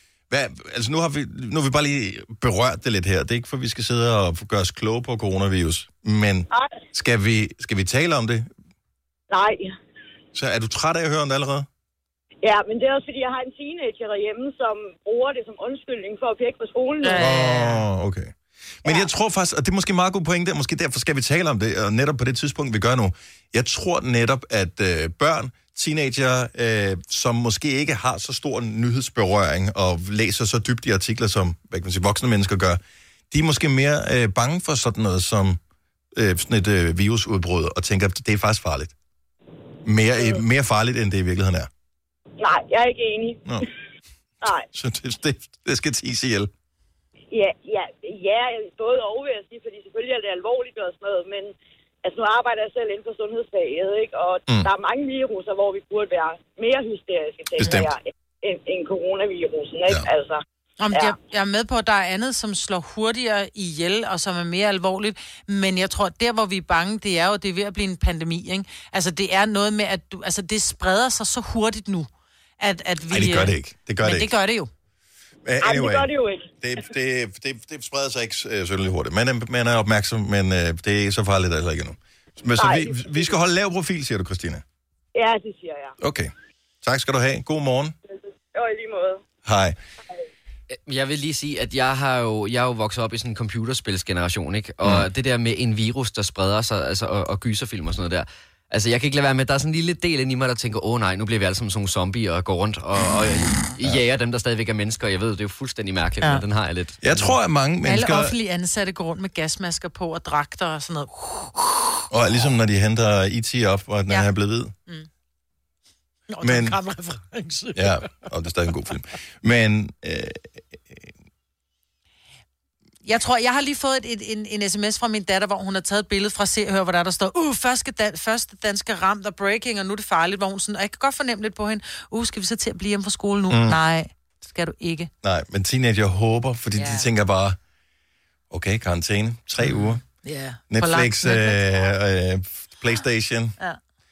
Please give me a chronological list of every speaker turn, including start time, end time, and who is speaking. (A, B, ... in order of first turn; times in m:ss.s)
0:00.3-0:08.5 A
0:06.5-0:06.8 B
0:09.3-0:09.7 B
0:10.3-0:11.7 A
0:12.4-0:17.2 B
0:17.0-0:17.9 C
0:17.2-0:35.6 A
0:36.2-0:38.9 A
0:39.8-0:41.7 A
0:42.4-0:43.5 B
0:44.7-0:46.5 A
0:47.3-1:01.2 B
0:57.6-0:57.9 A
1:00.8-1:12.1 C
1:12.6-1:14.7 C
1:13.1-1:14.3 A
1:15.4-1:24.6 A
1:15.6-1:16.5 B
1:22.6-1:23.4 B
1:25.2-1:26.0 B
1:26.0-1:26.3 A
1:26.8-1:28.0 A
1:28.1-1:29.2 B
1:29.4-1:29.8 A
1:30.7-1:47.4 D
1:47.0-1:48.4 A
1:47.8-1:52.0 C
1:52.1-1:54.7 A
1:56.3-1:58.1 C
1:56.4-1:56.8 A
1:57.8-2:01.1 A
2:03.0-2:15.1 C
2:13.5-2:13.8 A
2:15.2-2:17.6 A
2:16.8-2:17.1 C
2:18.5-2:20.0 A
2:19.6-2:21.9 C
2:20.7-2:23.6 A